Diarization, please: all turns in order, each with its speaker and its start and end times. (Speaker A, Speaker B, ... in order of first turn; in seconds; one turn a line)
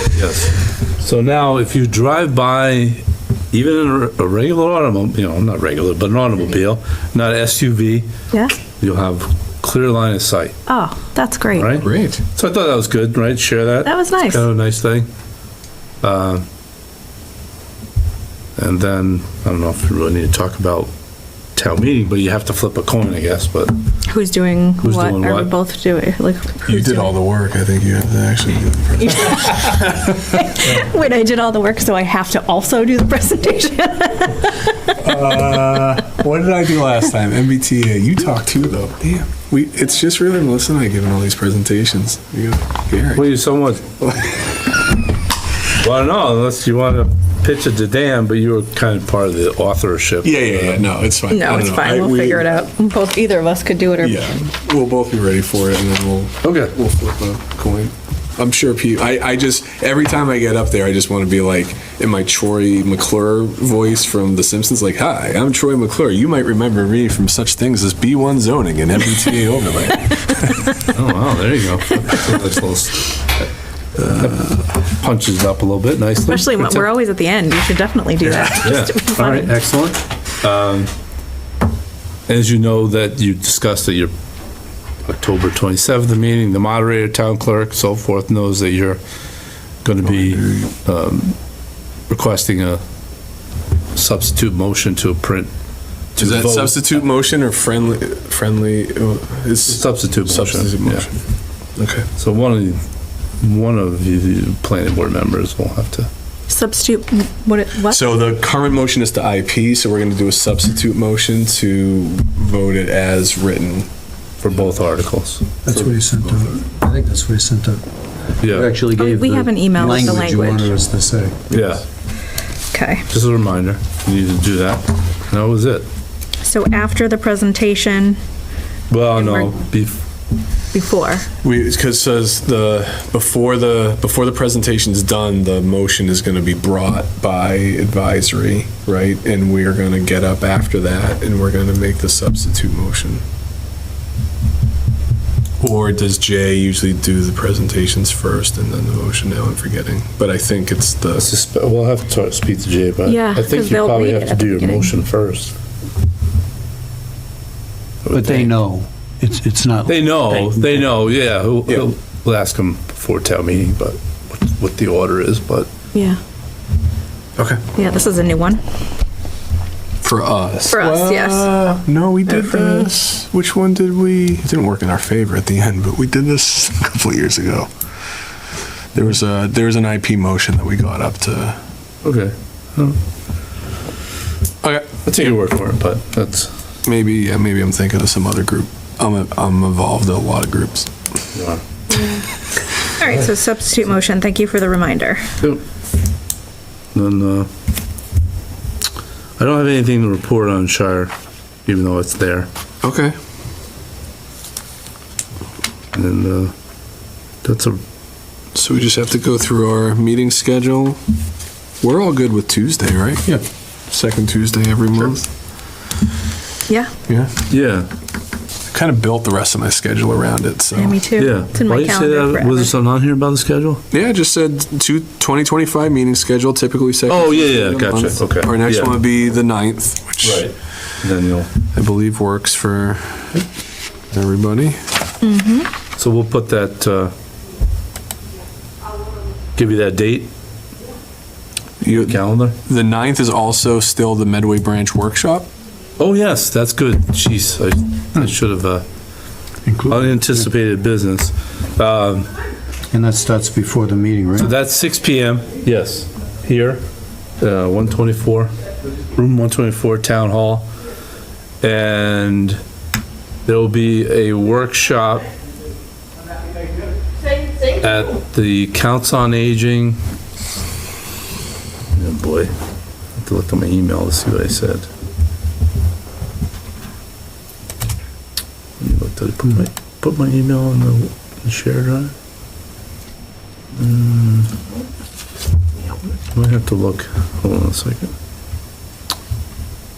Speaker A: 0.1-8.1
Speaker A: 8.8-10.6
Speaker B: 10.7-11.8
Speaker A: 11.5-15.1
Speaker C: 11.8-12.2
Speaker B: 13.8-14.5
Speaker A: 16.0-16.4
Speaker A: 18.6-20.9
Speaker A: 21.6-23.8
Speaker B: 24.1-27.1
Speaker A: 24.8-25.5
Speaker C: 26.7-30.8
Speaker B: 30.3-35.0
Speaker C: 35.0-43.2
Speaker A: 43.1-44.0
Speaker A: 45.8-50.9
Speaker C: 50.2-52.5
Speaker B: 51.3-54.4
Speaker C: 54.0-70.8
Speaker A: 56.4-56.7
Speaker A: 70.8-73.2
Speaker A: 74.1-76.9
Speaker B: 76.3-79.5
Speaker C: 78.2-78.5
Speaker A: 78.6-80.9
Speaker A: 82.3-84.1
Speaker A: 85.0-89.0
Speaker A: 89.8-91.4
Speaker C: 90.1-90.7
Speaker A: 92.1-92.8
Speaker A: 94.0-95.5
Speaker A: 96.2-97.0
Speaker C: 96.2-101.2
Speaker A: 99.7-101.1
Speaker C: 101.8-102.1
Speaker A: 102.2-102.8
Speaker A: 103.4-106.1
Speaker B: 106.5-108.0
Speaker C: 107.9-113.9
Speaker A: 114.4-115.5
Speaker D: 115.7-117.8
Speaker C: 115.7-116.5
Speaker A: 118.4-118.7
Speaker D: 118.4-121.4
Speaker B: 118.9-120.8
Speaker A: 121.5-121.8
Speaker B: 122.7-123.1
Speaker A: 123.1-125.9
Speaker B: 126.4-128.2
Speaker A: 128.9-130.0
Speaker B: 129.2-129.6
Speaker B: 130.7-131.3
Speaker C: 131.4-143.2
Speaker C: 145.6-151.3
Speaker A: 151.2-155.6
Speaker B: 153.1-154.9
Speaker A: 158.0-158.5
Speaker D: 158.1-160.8
Speaker A: 159.9-165.7
Speaker B: 165.9-166.2
Speaker C: 167.4-167.6
Speaker B: 167.8-168.6
Speaker C: 170.0-177.7
Speaker B: 170.7-171.5
Speaker B: 172.3-172.9
Speaker C: 178.9-181.6
Speaker A: 182.0-183.0
Speaker C: 184.6-185.0
Speaker A: 185.0-186.5
Speaker C: 186.8-190.9
Speaker A: 191.3-191.6
Speaker B: 193.0-195.3
Speaker A: 196.9-197.5
Speaker A: 199.4-201.1
Speaker A: 201.7-202.5
Speaker C: 202.8-203.2
Speaker A: 205.9-206.5
Speaker A: 207.4-207.8
Speaker C: 208.5-211.0
Speaker C: 211.8-213.4
Speaker C: 213.9-215.3
Speaker A: 217.5-217.9
Speaker C: 218.7-221.0
Speaker B: 220.8-222.7
Speaker A: 221.2-223.8
Speaker C: 223.9-230.5
Speaker A: 227.1-229.0
Speaker A: 230.2-231.5
Speaker C: 231.7-233.4
Speaker C: 234.1-234.8
Speaker B: 235.2-235.7
Speaker A: 236.0-237.1
Speaker A: 239.6-240.3
Speaker C: 241.8-245.5
Speaker A: 241.9-242.6
Speaker A: 246.0-248.9
Speaker D: 249.7-250.5
Speaker A: 249.9-252.3
Speaker D: 252.9-254.5
Speaker A: 254.4-256.9
Speaker A: 257.4-258.5
Speaker A: 259.1-260.7
Speaker A: 261.6-262.6
Speaker A: 263.4-265.3
Speaker A: 267.7-270.0
Speaker A: 271.9-272.5
Speaker A: 273.2-274.9
Speaker A: 278.8-282.1
Speaker A: 283.7-284.5
Speaker A: 286.3-288.1